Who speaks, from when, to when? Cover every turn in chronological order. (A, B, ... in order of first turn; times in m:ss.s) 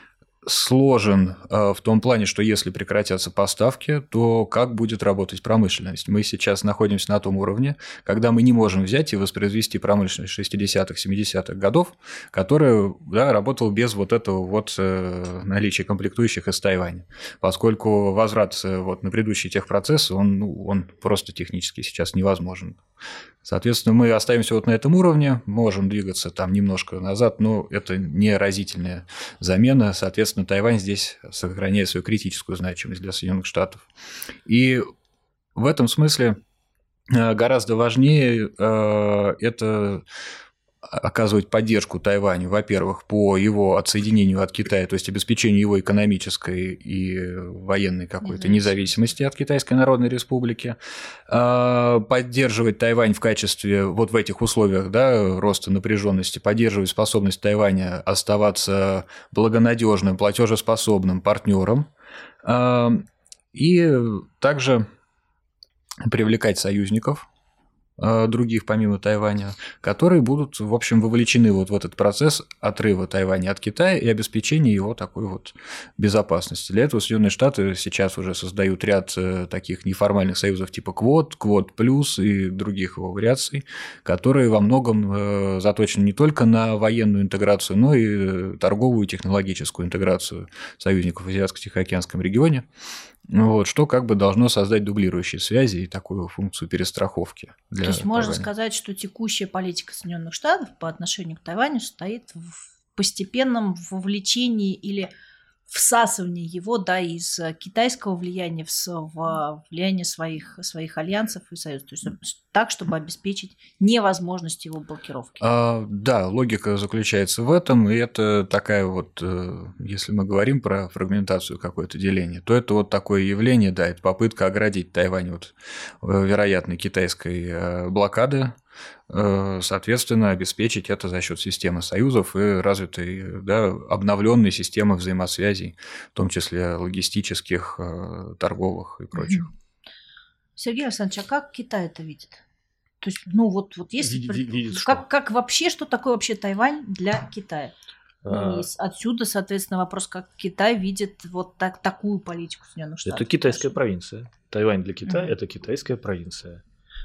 0:00.4-0:22.8 A
0:23.4-0:33.8 A
0:34.4-0:34.8 A
0:35.6-0:36.4 A
0:37.1-0:40.0 A
0:40.8-0:50.8 A
0:48.2-0:48.9 B
0:51.3-1:01.9 A
1:02.4-1:04.8 A
1:06.0-1:07.2 A
1:08.0-1:32.7 A
1:33.3-1:38.5 A
1:37.8-1:45.1 B
1:45.7-1:55.4 B
1:55.4-2:08.6 A
2:09.1-2:19.5 A
2:19.1-2:19.5 B
2:20.6-2:22.4 B
2:23.0-2:27.7 B
2:24.0-2:25.0 C
2:28.2-2:28.7 C
2:28.3-2:33.7 B
2:33.0-2:36.6 C
2:35.0-2:35.3 B